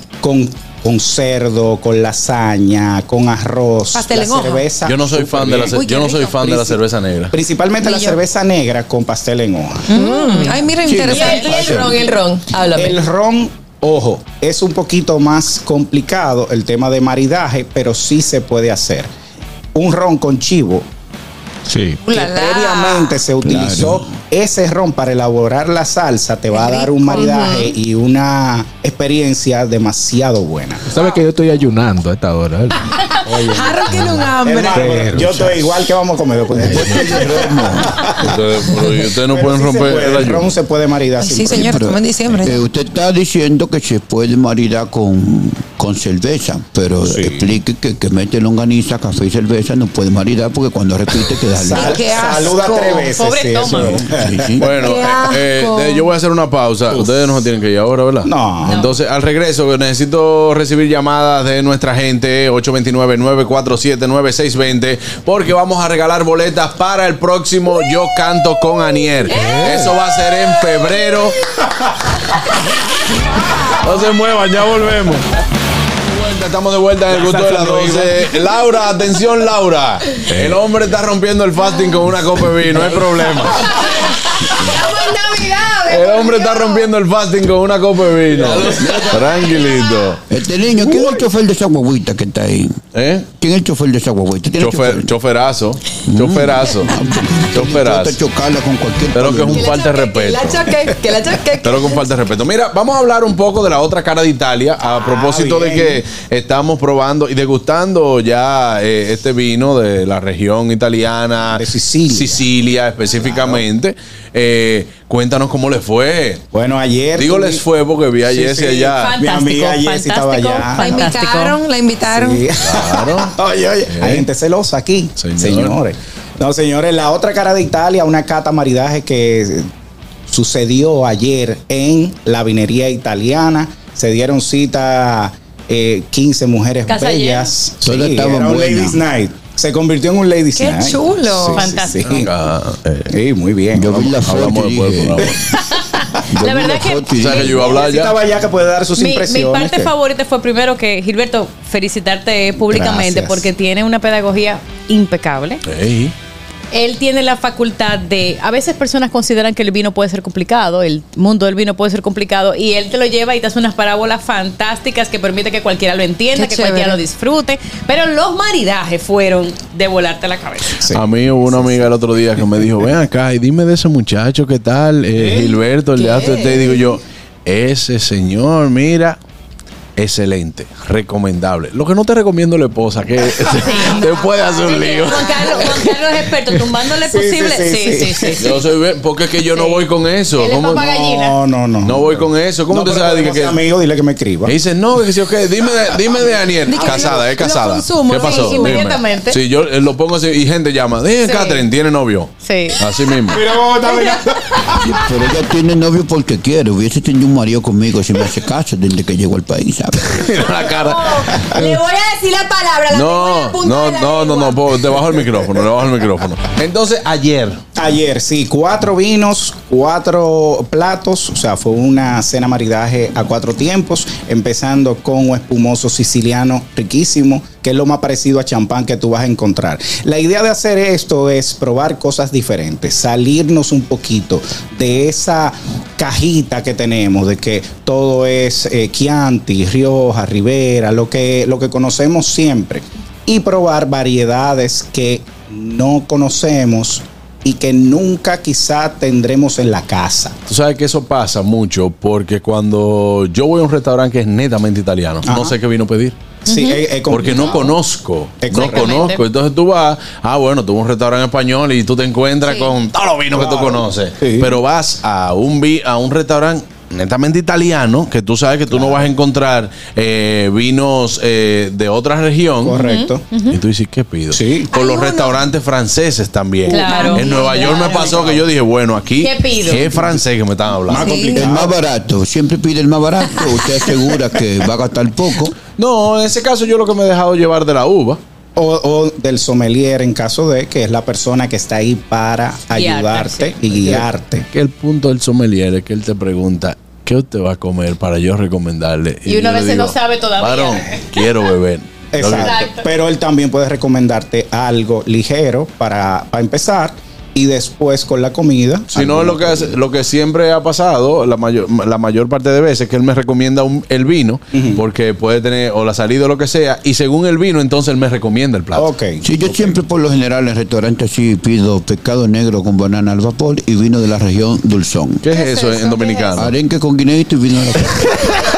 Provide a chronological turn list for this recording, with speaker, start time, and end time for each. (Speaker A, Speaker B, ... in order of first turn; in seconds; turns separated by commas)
Speaker A: 0.2-6.8, Speaker B: 3.9-4.7, Speaker C: 4.9-7.3, Speaker B: 5.7-6.3, Speaker A: 7.3-9.9, Speaker B: 7.8-8.2, Speaker B: 9.9-11.8, Speaker D: 9.9-13.0, Speaker E: 10.8-12.0, Speaker F: 11.1-11.5, Speaker A: 11.7-12.0, Speaker A: 12.7-19.1, Speaker A: 19.8-20.9, Speaker G: 21.7-22.0, Speaker B: 22.0-23.2, Speaker A: 22.1-30.9, Speaker E: 23.4-24.1, Speaker B: 26.6-27.7, Speaker G: 30.9-33.0, Speaker A: 33.2-33.9, Speaker B: 33.5-35.0, Speaker G: 33.9-35.7, Speaker A: 34.4-38.4, Speaker E: 36.5-38.3, Speaker C: 38.2-40.5, Speaker A: 39.0-41.8, Speaker B: 41.2-42.6, Speaker E: 41.5-52.2, Speaker A: 47.0-47.5, Speaker A: 51.6-55.1, Speaker B: 51.7-53.1, Speaker F: 52.9-54.0, Speaker E: 53.6-54.8, Speaker C: 54.6-71.4, Speaker D: 54.7-56.0, Speaker A: 58.3-58.9, Speaker F: 58.6-59.0, Speaker G: 69.3-70.0, Speaker C: 73.8-75.3, Speaker C: 76.0-83.8, Speaker G: 77.1-78.2, Speaker G: 82.7-83.1, Speaker D: 84.6-86.8, Speaker C: 85.9-90.2, Speaker E: 88.8-89.3, Speaker E: 90.3-92.8, Speaker C: 93.0-93.3, Speaker E: 93.4-95.1, Speaker C: 94.6-96.9, Speaker E: 96.1-99.7, Speaker C: 97.5-98.2, Speaker C: 99.2-100.7, Speaker D: 99.5-102.1, Speaker C: 101.6-116.4, Speaker A: 104.9-106.0, Speaker A: 111.5-112.5, Speaker A: 113.2-113.6, Speaker A: 116.5-117.6, Speaker C: 117.2-119.2, Speaker A: 118.2-121.1, Speaker F: 118.9-121.6, Speaker B: 120.7-122.5, Speaker A: 122.1-129.7, Speaker C: 122.6-123.3, Speaker C: 123.9-124.3, Speaker C: 125.2-125.8, Speaker A: 130.3-142.3, Speaker F: 136.9-137.5, Speaker E: 137.8-139.0, Speaker B: 140.6-141.7, Speaker F: 141.5-142.2, Speaker C: 142.1-143.1, Speaker A: 143.1-144.2, Speaker E: 143.8-145.3, Speaker C: 143.9-145.4, Speaker F: 145.5-147.8, Speaker E: 146.3-147.7, Speaker C: 147.2-148.2, Speaker A: 147.6-149.9, Speaker F: 149.0-155.6, Speaker A: 152.6-153.5, Speaker C: 155.7-156.1, Speaker F: 156.7-170.8, Speaker B: 166.3-167.0, Speaker C: 170.9-179.2, Speaker F: 175.9-176.8, Speaker C: 180.0-185.7, Speaker F: 183.6-188.5, Speaker A: 187.0-188.4, Speaker C: 188.4-190.9, Speaker F: 189.5-189.8, Speaker F: 190.3-191.4, Speaker A: 190.8-194.5, Speaker C: 191.8-193.6, Speaker C: 194.4-203.4, Speaker B: 196.7-198.9, Speaker F: 198.2-199.4, Speaker F: 201.2-201.6, Speaker F: 202.4-202.8, Speaker A: 203.3-204.9, Speaker E: 204.9-210.3, Speaker C: 210.1-211.5, Speaker D: 210.8-214.7, Speaker C: 212.9-217.6, Speaker A: 217.8-250.4, Speaker C: 250.5-256.2, Speaker A: 255.3-255.5, Speaker F: 256.5-256.8, Speaker A: 256.5-257.8, Speaker C: 257.1-272.8, Speaker A: 258.4-259.0, Speaker F: 258.5-259.2, Speaker A: 263.3-264.6, Speaker A: 268.7-269.1, Speaker A: 272.6-273.2, Speaker F: 272.7-273.6, Speaker C: 273.5-281.1, Speaker A: 274.3-274.7, Speaker B: 274.7-275.4, Speaker F: 276.7-278.3, Speaker A: 276.7-278.4, Speaker F: 279.2-279.9, Speaker A: 279.9-280.2, Speaker A: 280.9-281.8, Speaker B: 281.0-281.6, Speaker E: 281.4-285.6, Speaker C: 285.8-288.2, Speaker A: 288.6-294.5, Speaker F: 292.7-293.5, Speaker C: 293.8-302.6, Speaker F: 299.3-301.1, Speaker A: 302.1-309.8, Speaker F: 302.3-302.9, Speaker C: 308.9-318.9, Speaker A: 314.5-314.8, Speaker A: 318.8-319.7, Speaker E: 319.2-325.2, Speaker C: 325.2-326.5, Speaker B: 325.4-326.0, Speaker F: 325.8-326.2, Speaker E: 326.4-328.2